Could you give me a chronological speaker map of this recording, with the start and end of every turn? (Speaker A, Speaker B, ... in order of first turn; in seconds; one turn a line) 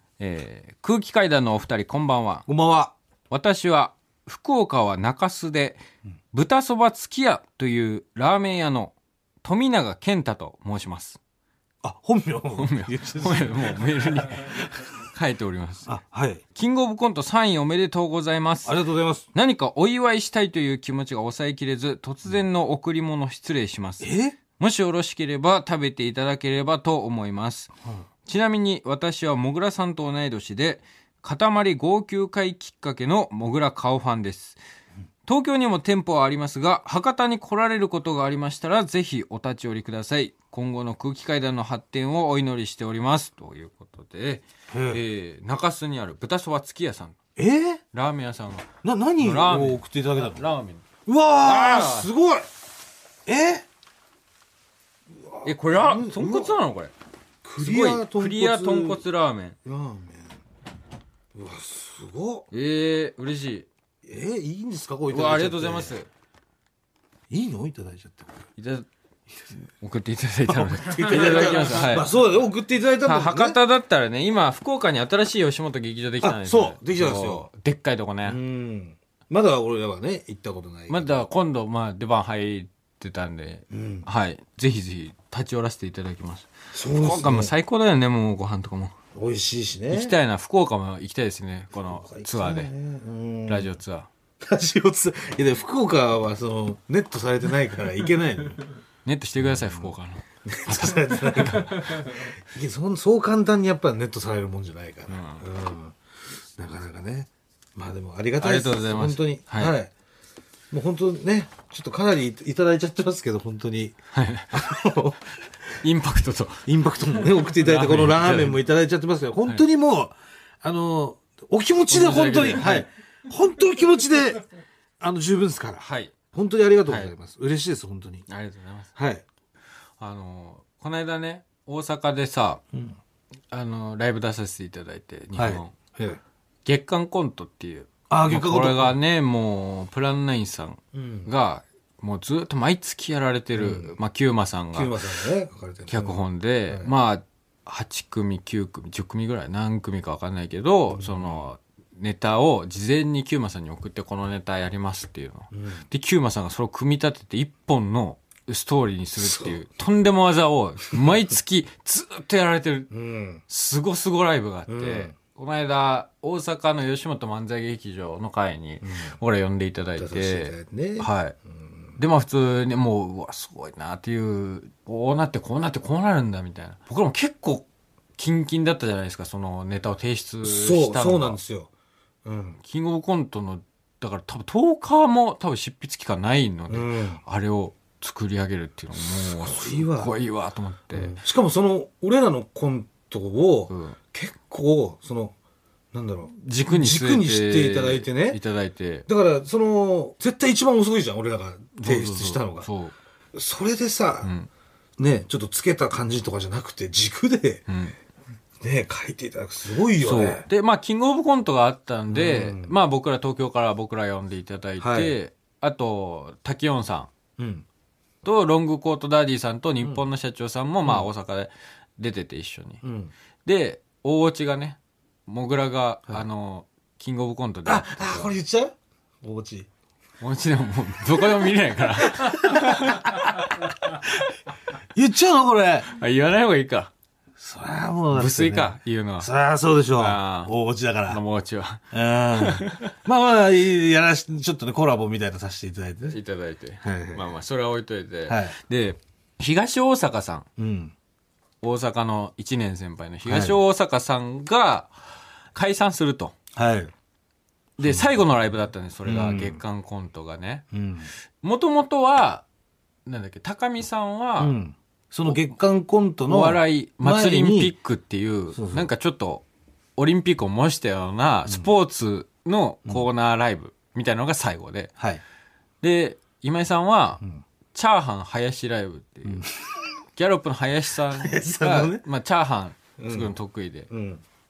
Speaker A: 0.2-2.5
Speaker B: 2.5-2.9
Speaker A: 3.3-5.8
Speaker A: 6.3-11.2
Speaker B: 11.8-14.7
Speaker A: 12.6-15.9
Speaker B: 15.9-16.4
Speaker A: 16.5-18.8
Speaker B: 18.6-19.3
Speaker A: 19.3-27.7
Speaker B: 24.0-24.4
Speaker A: 28.2-34.6
Speaker A: 35.2-47.1
Speaker B: 44.7-45.0
Speaker B: 47.4-47.8
Speaker A: 47.9-48.7
Speaker B: 48.8-50.4
Speaker A: 49.2-50.8
Speaker B: 51.0-52.5
Speaker A: 51.4-52.1
Speaker B: 53.2-53.6
Speaker B: 55.1-56.6
Speaker A: 55.4-56.9
Speaker B: 57.4-59.0
Speaker A: 57.6-59.6
Speaker B: 59.6-60.4
Speaker B: 61.3-62.5
Speaker A: 62.5-63.7
Speaker B: 64.0-65.9
Speaker A: 65.1-66.1
Speaker B: 67.3-68.3
Speaker A: 68.6-68.9
Speaker A: 69.8-72.1
Speaker B: 70.5-73.6
Speaker A: 73.0-78.4
Speaker B: 76.2-77.5
Speaker B: 78.2-81.2
Speaker A: 80.9-88.9
Speaker B: 83.7-84.1
Speaker B: 86.7-87.5
Speaker B: 89.1-90.2
Speaker A: 89.9-92.7
Speaker B: 91.7-93.7
Speaker A: 93.5-94.1
Speaker B: 94.4-98.6
Speaker A: 99.0-102.3
Speaker B: 99.4-99.9
Speaker B: 100.4-106.0
Speaker A: 105.1-105.4
Speaker B: 106.6-109.9
Speaker A: 108.4-109.7
Speaker B: 110.7-114.0
Speaker A: 114.1-114.5
Speaker B: 114.5-115.3
Speaker A: 115.8-116.7
Speaker B: 116.7-124.4
Speaker A: 117.2-118.6
Speaker A: 121.9-122.8
Speaker B: 125.0-128.2
Speaker A: 125.8-126.1
Speaker A: 126.8-127.1
Speaker A: 128.3-128.9
Speaker B: 128.9-129.2
Speaker A: 130.0-132.6
Speaker A: 133.5-135.7
Speaker B: 135.3-136.2
Speaker A: 136.6-145.0
Speaker B: 138.1-139.0
Speaker B: 140.9-141.3
Speaker B: 143.6-143.9
Speaker B: 144.7-146.9
Speaker A: 145.9-162.9
Speaker B: 150.9-151.4
Speaker B: 155.5-155.8
Speaker B: 159.2-159.6
Speaker B: 162.9-163.4
Speaker A: 163.5-171.3
Speaker B: 164.7-165.1
Speaker B: 168.8-169.1
Speaker B: 170.0-172.0
Speaker A: 172.0-177.7
Speaker A: 178.2-181.4
Speaker B: 180.4-181.7
Speaker B: 182.2-182.6
Speaker A: 182.6-191.2
Speaker B: 186.7-187.2
Speaker B: 189.0-190.1
Speaker B: 190.9-195.3
Speaker A: 193.7-194.0
Speaker B: 195.9-198.4
Speaker A: 196.4-199.1
Speaker B: 199.1-202.7
Speaker A: 201.8-202.9
Speaker B: 203.3-204.3
Speaker A: 204.2-204.5
Speaker B: 205.0-207.7
Speaker A: 207.7-207.9
Speaker B: 208.6-210.4
Speaker A: 210.0-217.1
Speaker B: 212.1-212.8
Speaker B: 214.8-215.2
Speaker B: 217.4-217.6
Speaker A: 218.2-222.8
Speaker B: 222.8-223.1
Speaker A: 223.4-228.3
Speaker B: 227.6-229.7
Speaker A: 230.2-234.0
Speaker B: 232.0-233.9
Speaker B: 234.9-235.9
Speaker A: 235.9-236.9
Speaker B: 237.4-241.2
Speaker A: 238.1-239.3
Speaker A: 239.9-240.5
Speaker A: 241.1-242.9
Speaker B: 241.9-246.2
Speaker A: 246.1-250.4
Speaker B: 246.8-247.3
Speaker B: 248.3-248.6
Speaker B: 250.6-250.9
Speaker A: 251.6-254.9
Speaker B: 253.2-253.6
Speaker A: 255.5-256.3
Speaker B: 256.6-256.9
Speaker A: 257.8-260.6
Speaker B: 257.8-258.1
Speaker B: 259.1-259.6
Speaker B: 260.7-261.1
Speaker A: 261.4-262.4
Speaker A: 263.0-264.5
Speaker B: 264.4-267.7
Speaker A: 266.3-269.4
Speaker B: 268.5-268.9
Speaker A: 270.0-274.9
Speaker A: 275.8-277.2
Speaker A: 277.7-279.4
Speaker B: 279.2-279.5
Speaker A: 280.1-283.9
Speaker B: 281.1-282.1
Speaker B: 283.0-283.4
Speaker B: 283.9-284.2